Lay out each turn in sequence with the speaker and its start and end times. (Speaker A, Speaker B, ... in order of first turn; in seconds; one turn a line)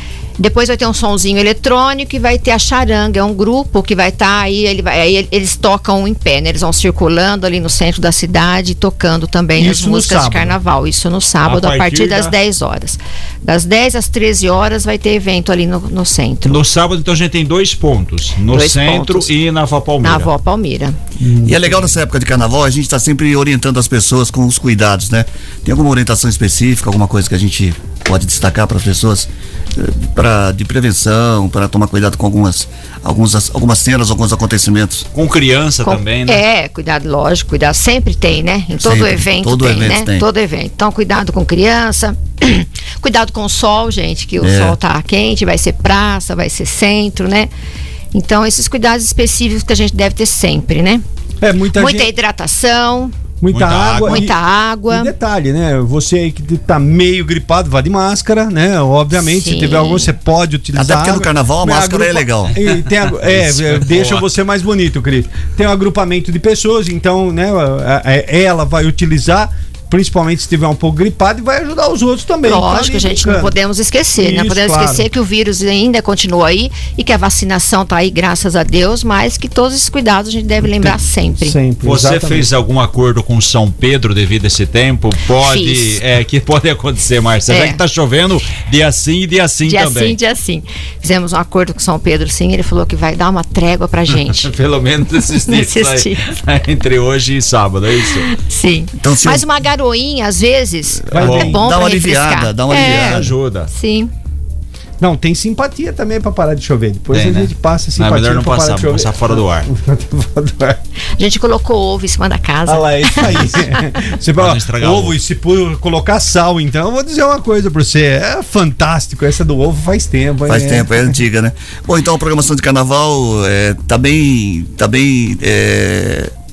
Speaker A: 0.4-16.6
Speaker B: 9.6-10.6
Speaker C: 11.4-12.3
Speaker C: 16.4-20.3
Speaker A: 18.5-19.3
Speaker A: 20.0-21.0
Speaker B: 21.2-22.0
Speaker D: 21.4-35.1
Speaker C: 35.1-36.4
Speaker A: 35.8-47.5
Speaker D: 38.8-40.2
Speaker D: 44.4-44.8
Speaker A: 48.1-51.0
Speaker B: 51.4-52.1
Speaker A: 51.7-53.2
Speaker B: 53.4-54.4
Speaker C: 53.5-54.3
Speaker A: 54.0-55.1
Speaker B: 54.9-73.5
Speaker A: 59.1-60.1
Speaker D: 60.7-62.6
Speaker C: 62.6-64.3
Speaker A: 72.4-81.6
Speaker B: 74.2-75.1
Speaker B: 80.8-82.5
Speaker C: 81.8-90.2
Speaker A: 85.3-86.0
Speaker A: 87.5-87.8
Speaker A: 89.7-94.5
Speaker C: 94.3-98.3
Speaker A: 95.5-96.3
Speaker A: 98.1-104.1
Speaker D: 99.0-99.5
Speaker B: 101.1-101.6
Speaker C: 101.2-101.6
Speaker D: 101.2-103.3
Speaker C: 102.7-103.7
Speaker B: 105.0-110.8
Speaker C: 107.1-109.7
Speaker A: 111.2-114.0
Speaker B: 112.7-121.2
Speaker C: 114.4-115.2
Speaker D: 120.5-126.3